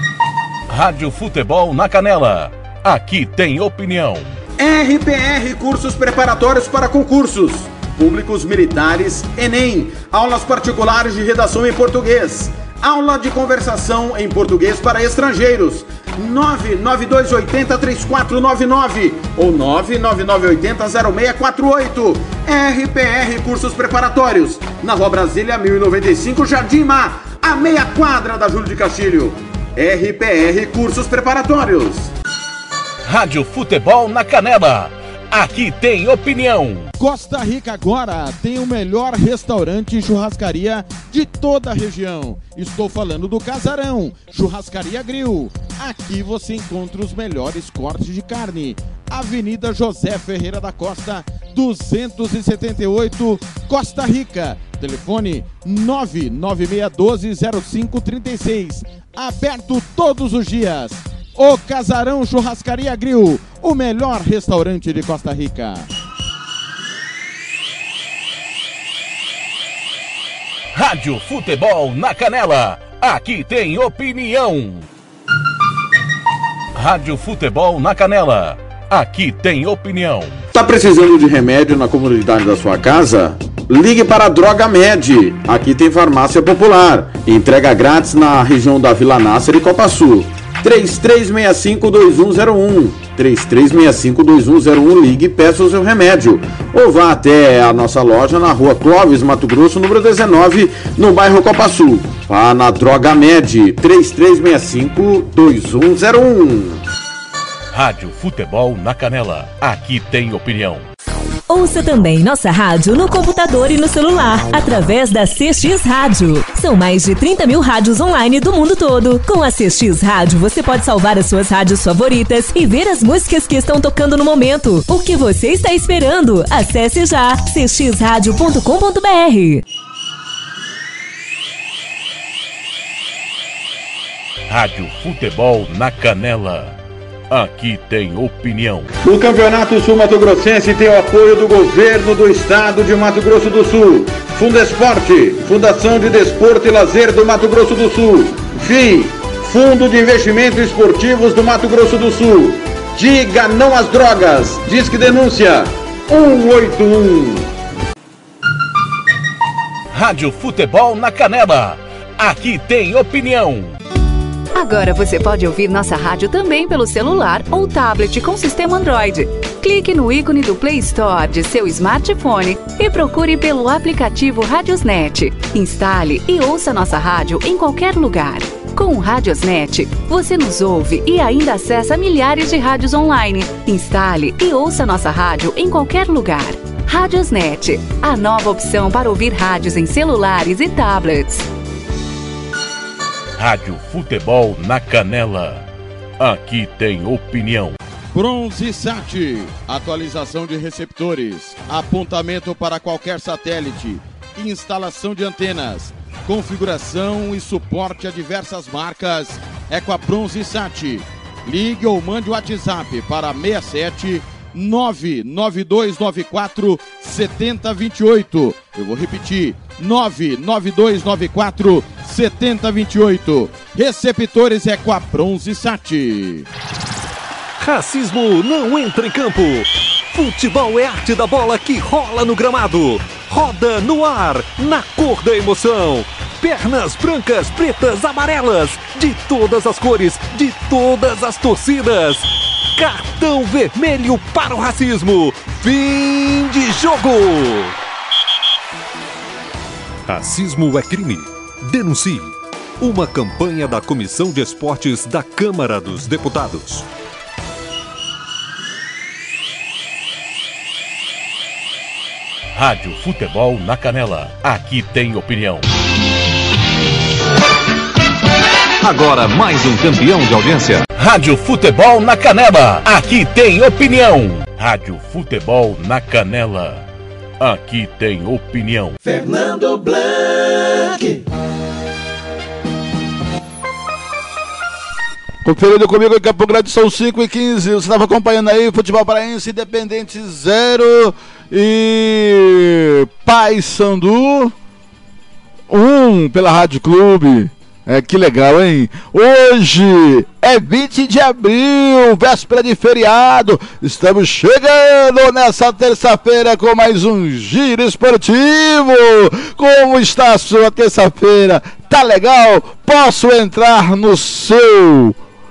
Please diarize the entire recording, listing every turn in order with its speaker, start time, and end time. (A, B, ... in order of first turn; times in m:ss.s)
0:00.7-0:04.4 A
0:04.6-0:32.1 B
0:33.1-0:36.9 A
0:37.0-1:05.9 C
1:10.7-1:14.9 A
1:16.8-1:20.4 A
1:20.5-1:46.8 B
1:47.7-1:50.9 A
1:51.5-2:09.6 D
2:14.5-2:16.8 A
2:17.3-2:18.9 A
2:19.0-2:37.5 B
2:39.9-2:43.8 A
2:44.5-3:11.5 E
3:13.4-3:15.7 A
3:16.2-3:17.8 A
3:18.1-3:46.5 C
3:47.6-4:07.8 F
4:10.1-4:16.9 F
4:22.5-4:25.7 A
4:28.8-4:30.8 F
4:31.0-4:36.9 A
4:37.4-4:39.0 A
4:45.4-4:54.5 G
4:55.7-5:15.2 G